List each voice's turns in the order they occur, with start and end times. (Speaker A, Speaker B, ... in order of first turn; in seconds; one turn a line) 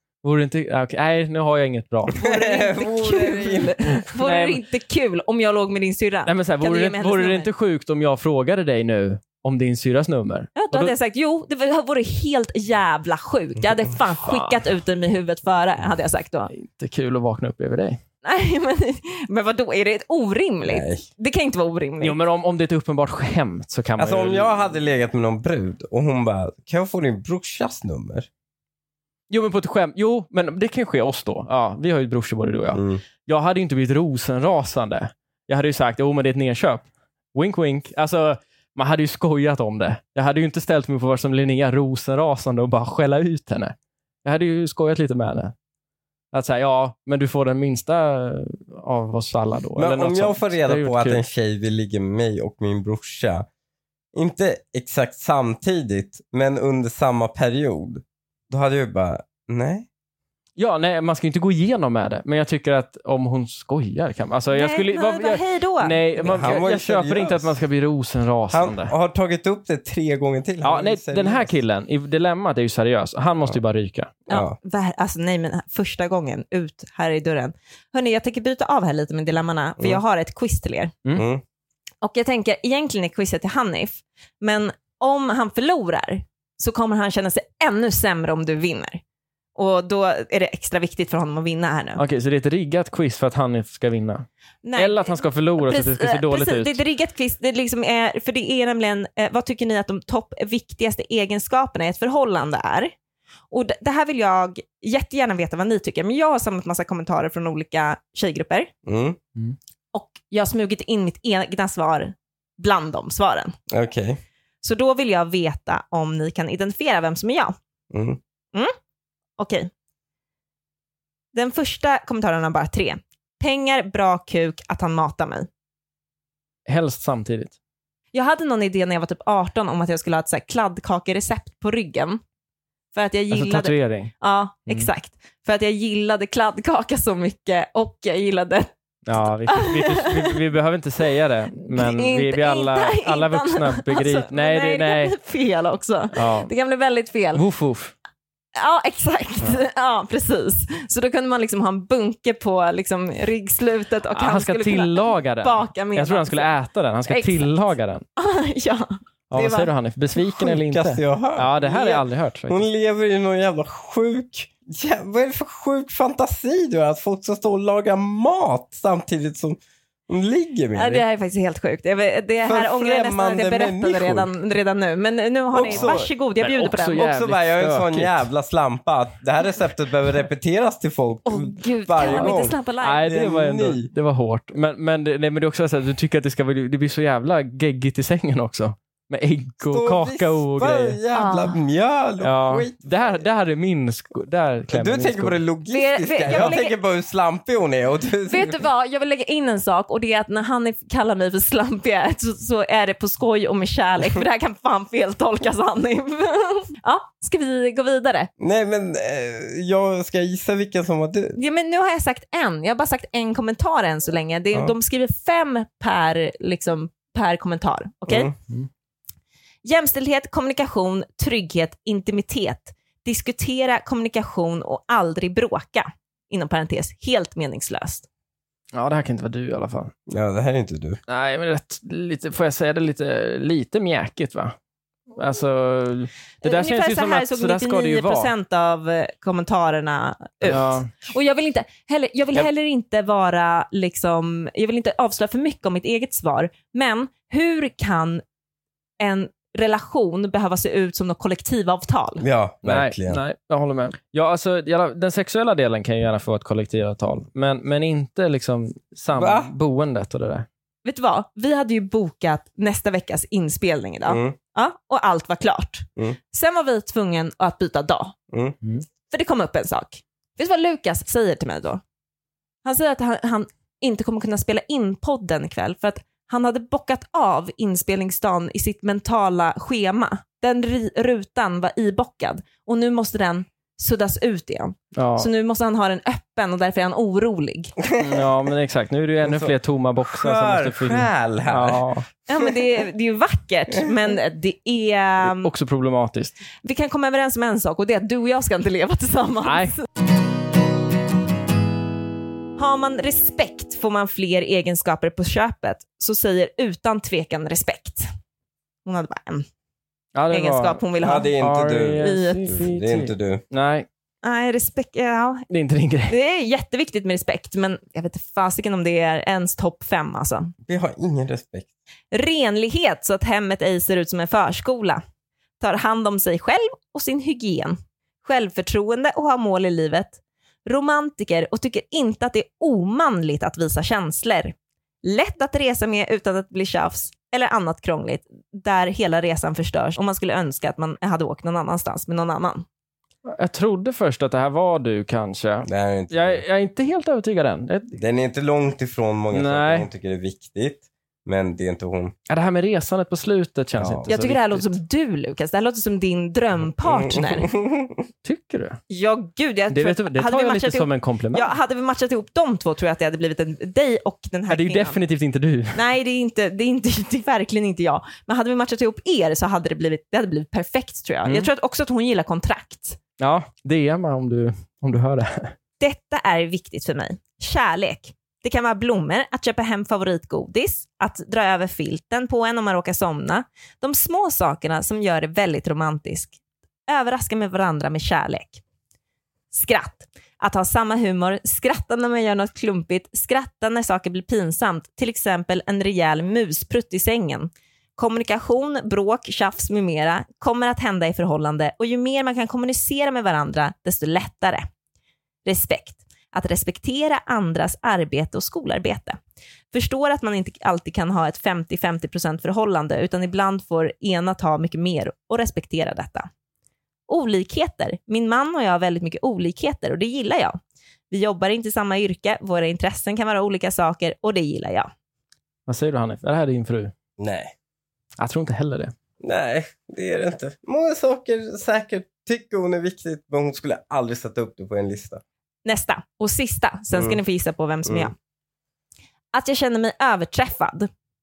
Speaker A: 0.2-2.2
Speaker B: 2.1-3.8
Speaker C: 2.1-7.5
Speaker A: 4.1-4.6
Speaker A: 6.2-10.9
Speaker C: 10.6-16.5
Speaker A: 14.2-14.6
Speaker A: 16.5-18.0
Speaker C: 18.2-22.2
Speaker B: 20.6-21.0
Speaker A: 22.0-24.5
Speaker B: 24.0-28.3
Speaker A: 29.3-45.5
Speaker B: 32.7-33.0
Speaker A: 46.3-51.2
Speaker B: 49.8-53.5
Speaker B: 54.1-59.9
Speaker A: 60.6-68.9
Speaker C: 64.5-66.4
Speaker B: 66.2-67.6
Speaker B: 68.5-71.5
Speaker A: 70.6-74.1
Speaker C: 74.3-80.9
Speaker B: 74.3-74.5
Speaker B: 81.1-81.4
Speaker C: 82.0-89.0
Speaker C: 89.5-92.0
Speaker A: 92.0-96.8
Speaker C: 94.6-102.9
Speaker C: 103.5-108.7
Speaker B: 108.9-109.2
Speaker C: 109.9-113.5
Speaker B: 113.7-114.2
Speaker C: 114.6-117.5
Speaker B: 117.9-118.2
Speaker C: 119.4-119.7
Speaker C: 121.3-125.5
Speaker A: 126.7-127.5
Speaker C: 128.1-132.2
Speaker C: 132.9-138.7
Speaker A: 133.3-134.1
Speaker A: 139.1-145.1
Speaker C: 139.5-140.4
Speaker C: 141.7-147.4
Speaker A: 146.1-146.5
Speaker A: 147.3-147.9
Speaker C: 148.5-156.5
Speaker A: 154.1-158.0
Speaker C: 157.1-157.6
Speaker C: 158.2-159.7
Speaker A: 159.3-162.6
Speaker B: 160.4-171.0
Speaker C: 170.7-177.1
Speaker B: 172.4-174.3
Speaker B: 175.5-176.1
Speaker A: 175.7-178.2
Speaker B: 176.9-183.9
Speaker C: 181.3-183.0
Speaker A: 182.0-191.0
Speaker B: 189.6-193.2
Speaker C: 191.1-191.6
Speaker A: 192.2-195.4
Speaker B: 194.7-198.6
Speaker C: 195.7-196.7
Speaker C: 198.3-208.3
Speaker B: 208.4-211.4
Speaker C: 211.4-218.3
Speaker B: 218.1-218.3
Speaker C: 219.6-228.1
Speaker A: 228.7-229.9
Speaker B: 230.1-231.0
Speaker A: 231.1-234.6
Speaker A: 235.2-238.3
Speaker C: 236.4-248.2
Speaker A: 240.4-240.9
Speaker C: 249.0-252.2
Speaker B: 252.2-253.2
Speaker A: 252.6-260.4
Speaker B: 259.1-259.5
Speaker C: 260.9-268.1
Speaker B: 264.0-264.4
Speaker C: 269.1-271.8
Speaker C: 272.6-287.7
Speaker A: 284.9-285.3
Speaker B: 287.9-288.2
Speaker A: 288.0-292.1
Speaker B: 289.2-289.5
Speaker B: 290.1-291.9
Speaker C: 292.3-295.5
Speaker A: 295.2-296.4
Speaker C: 296.6-299.8
Speaker A: 299.4-299.7
Speaker C: 302.6-308.1
Speaker C: 308.9-309.4
Speaker A: 310.1-313.9
Speaker C: 310.3-311.3
Speaker B: 311.0-313.4
Speaker C: 312.0-312.5
Speaker C: 314.2-315.5
Speaker A: 315.5-316.1
Speaker C: 316.1-320.5
Speaker B: 320.6-321.7
Speaker C: 322.1-325.0
Speaker C: 325.6-342.6
Speaker A: 343.3-348.0
Speaker B: 345.6-346.4
Speaker B: 347.9-352.1
Speaker A: 349.3-349.9
Speaker A: 352.3-354.7
Speaker B: 353.8-354.1
Speaker C: 354.1-357.5
Speaker B: 356.9-358.0
Speaker A: 358.2-358.8
Speaker C: 358.9-365.0
Speaker A: 359.7-361.5
Speaker A: 364.5-365.8
Speaker C: 365.7-373.0
Speaker A: 373.2-375.5
Speaker C: 375.8-388.6
Speaker C: 389.5-404.6
Speaker C: 405.4-409.2
Speaker C: 409.7-416.3
Speaker C: 417.1-420.6
Speaker C: 421.1-424.9
Speaker A: 425.7-426.9
Speaker B: 427.2-427.5
Speaker A: 428.2-428.9
Speaker B: 429.2-435.2
Speaker C: 435.6-438.1
Speaker B: 436.9-437.2
Speaker B: 437.9-438.1
Speaker C: 439.3-440.9